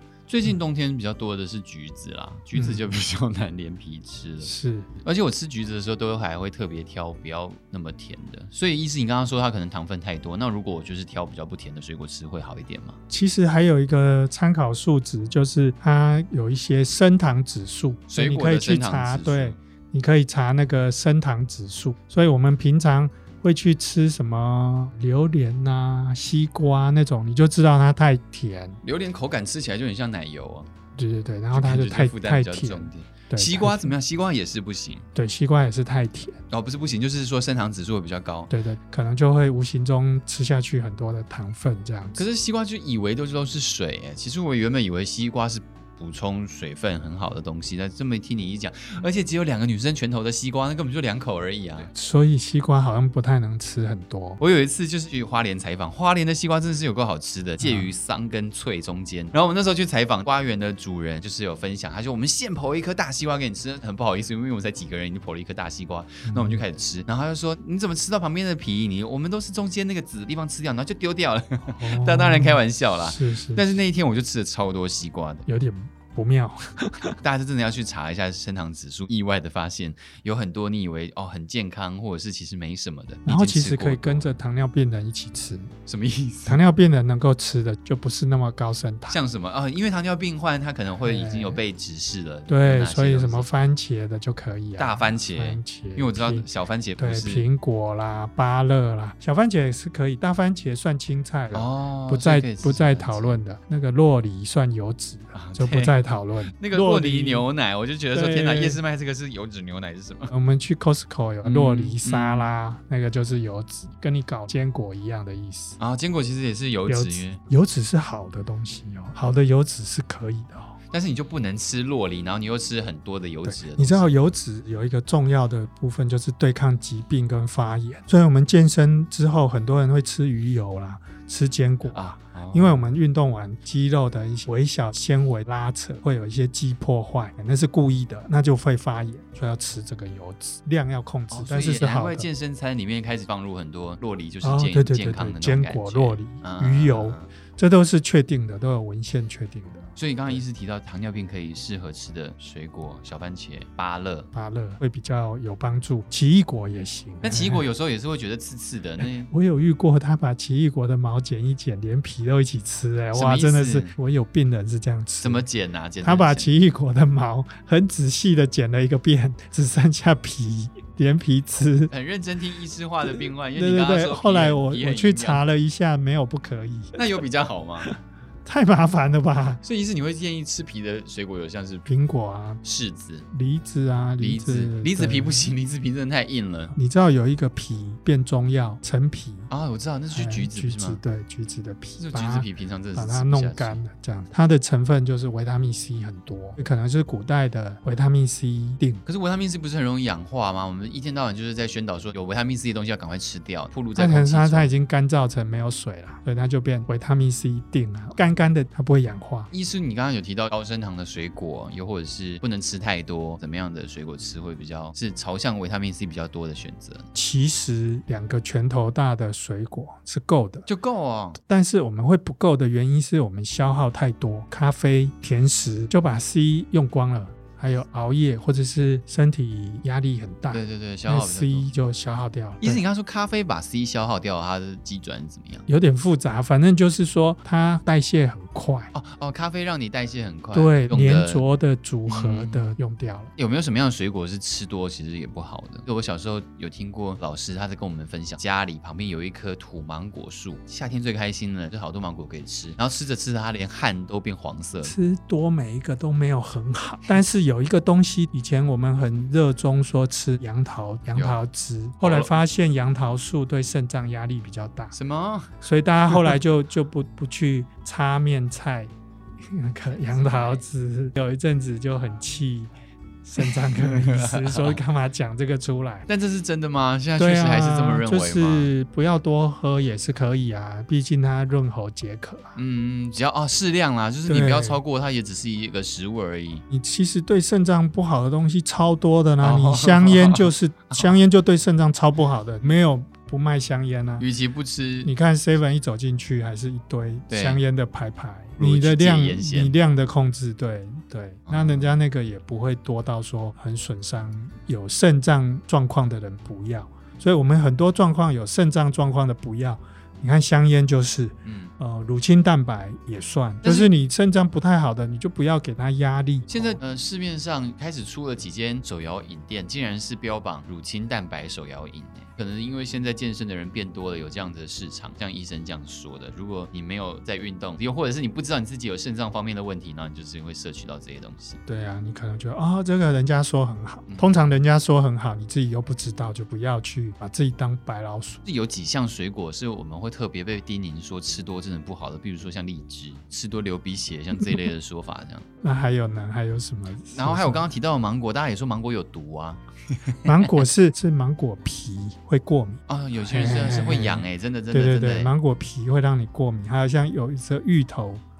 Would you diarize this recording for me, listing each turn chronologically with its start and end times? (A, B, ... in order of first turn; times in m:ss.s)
0:00.3-0:13.0 A
0:02.5-0:02.8 B
0:04.4-0:04.9 B
0:13.1-0:28.8 B
0:18.1-0:19.6 A
0:28.8-0:30.7 A
0:31.0-0:33.9 B
0:31.5-0:35.0 A
0:35.1-0:36.4 B
0:36.5-0:38.5 A
0:38.5-0:42.2 B
0:42.1-0:51.9 A
0:51.9-0:54.4 B
0:54.4-1:15.5 A
0:57.6-0:57.9 B
1:06.2-1:06.6 B
1:11.7-1:13.6 B
1:15.4-1:17.2 B
1:17.2-1:24.3 A
1:23.2-1:25.7 B
1:25.8-1:26.6 A
1:26.4-1:29.2 B
1:29.1-1:33.5 A
1:31.0-1:31.6 B
1:32.5-1:47.5 B
1:34.8-1:37.5 A
1:41.5-1:43.4 A
1:45.3-1:46.0 A
1:46.6-1:50.3 A
1:48.1-1:48.8 B
1:50.3-1:55.8 B
1:51.4-1:52.5 A
1:55.8-1:57.4 A
1:56.8-2:00.8 B
2:00.9-2:04.1 A
2:03.4-2:22.3 B
2:11.9-2:12.8 A
2:21.3-2:27.3 A
2:24.4-2:30.4 B
2:30.0-2:34.3 A
2:34.3-2:37.7 B
2:37.2-2:39.3 A
2:39.0-2:45.4 B
2:43.1-2:44.0 A
2:45.2-2:46.5 A
2:46.0-2:51.9 B
2:51.9-2:55.4 A
2:53.0-2:57.0 B
2:56.9-2:57.9 A
2:57.8-2:59.6 B
2:59.6-3:01.8 A
3:01.8-3:02.6 B
3:02.6-3:03.3 A
3:03.3-3:05.5 B
3:04.2-3:06.7 A
3:06.7-3:09.5 B
3:09.5-3:11.0 A
3:10.1-3:19.0 B
3:12.0-3:13.8 A
3:19.0-3:24.8 A
3:23.9-3:29.5 B
3:29.5-3:37.1 A
3:37.1-3:40.7 B
3:40.6-3:41.4 A
3:41.4-3:52.8 B
3:50.5-3:51.7 A
3:52.6-3:55.6 A
3:55.7-3:58.9 B
3:58.9-4:01.4 A
4:00.5-4:03.3 B
4:02.0-4:02.8 A
4:03.4-4:14.9 A
4:14.8-4:25.0 B
4:21.1-4:21.4 A
4:22.0-4:22.3 A
4:24.9-4:25.5 A
4:25.6-4:28.9 B
4:29.5-4:32.7 B
4:29.9-4:30.6 A
4:33.2-4:36.1 B
4:33.4-4:34.8 A
4:36.1-4:38.7 A
4:37.2-4:42.6 B
4:42.5-4:46.6 A
4:44.2-4:44.8 B
4:46.7-4:54.2 B
4:49.4-4:51.2 A
4:54.2-4:55.1 A
4:55.0-5:16.8 B
4:57.3-4:57.6 A
4:58.6-4:59.8 A
5:01.5-5:02.0 A
5:11.4-5:11.7 A
5:13.6-5:13.9 A
5:16.5-5:31.6 A
5:31.6-5:38.4 B
5:34.1-5:34.4 A
5:38.4-5:45.4 A
5:45.6-5:47.7 B
5:47.1-5:50.1 A
5:50.2-5:58.2 B
5:52.9-5:55.3 A